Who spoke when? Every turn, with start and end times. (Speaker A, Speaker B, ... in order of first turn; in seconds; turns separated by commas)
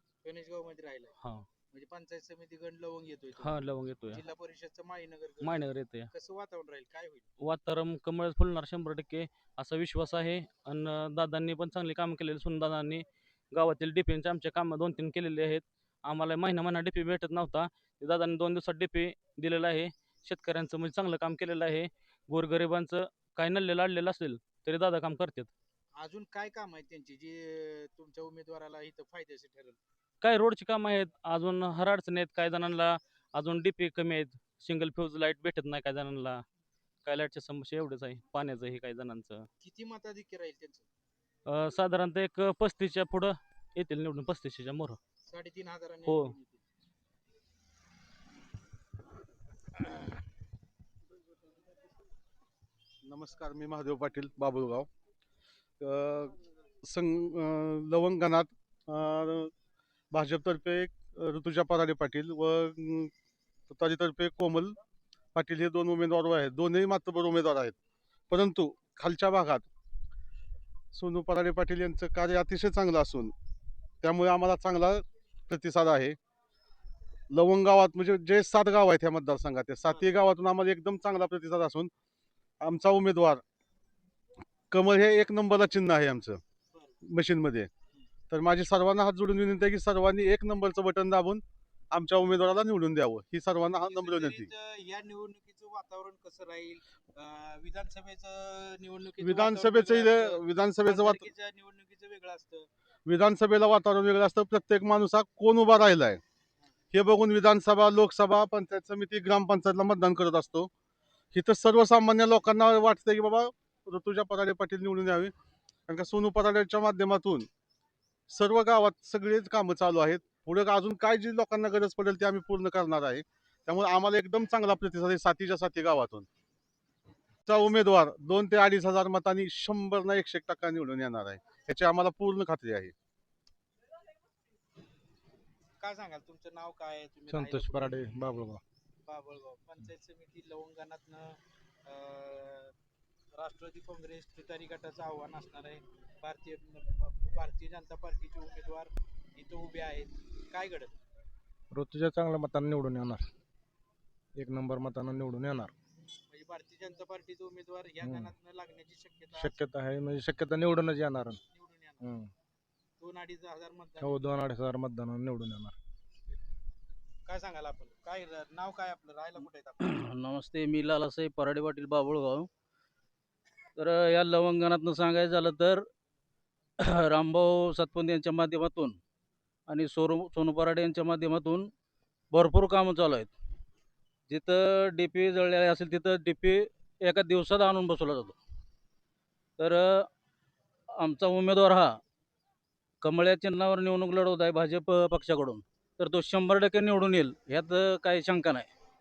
Speaker A: 0.2-1.1, Speaker B: 1.2-1.4, Speaker A: 1.7-3.5, Speaker B: 3.4-4.2, Speaker A: 4.1-7.2, Speaker B: 5.4-6.1, Speaker B: 7.4-25.5, Speaker A: 26.0-29.8, Speaker B: 30.2-36.4, Speaker B: 37.0-39.5, Speaker A: 39.6-40.9, Speaker B: 41.5-45.0, Speaker A: 45.3-46.6, Speaker C: 53.0-54.9, Speaker C: 55.8-56.4, Speaker C: 56.9-59.5, Speaker C: 60.1-63.1, Speaker C: 63.7-64.8, Speaker C: 65.3-67.7, Speaker C: 68.3-69.7, Speaker C: 70.9-73.3, Speaker C: 74.0-76.2, Speaker C: 77.3-81.9, Speaker A: 79.8-80.1, Speaker C: 82.6-83.4, Speaker C: 84.7-86.4, Speaker C: 87.0-87.7, Speaker C: 88.3-94.5, Speaker A: 93.8-102.7, Speaker C: 99.2-101.2, Speaker C: 103.0-106.2, Speaker C: 106.9-110.7, Speaker C: 111.3-115.3, Speaker C: 115.9-117.5, Speaker C: 118.3-126.2, Speaker C: 127.5-132.9, Speaker A: 135.8-138.0, Speaker D: 137.3-138.6, Speaker A: 139.1-142.7, Speaker A: 143.3-150.9, Speaker D: 151.7-153.3, Speaker D: 154.3-155.7, Speaker A: 156.3-159.6, Speaker D: 158.0-158.3, Speaker D: 159.3-161.4, Speaker A: 161.5-162.2, Speaker D: 162.0-162.3, Speaker A: 163.0-164.3, Speaker D: 164.0-165.8, Speaker A: 167.3-170.0, Speaker E: 170.2-172.4, Speaker E: 173.8-175.8, Speaker E: 176.8-178.9, Speaker E: 179.7-181.7, Speaker E: 182.3-183.3, Speaker E: 184.3-188.3, Speaker E: 189.6-190.0, Speaker E: 191.0-191.9, Speaker E: 193.0-198.7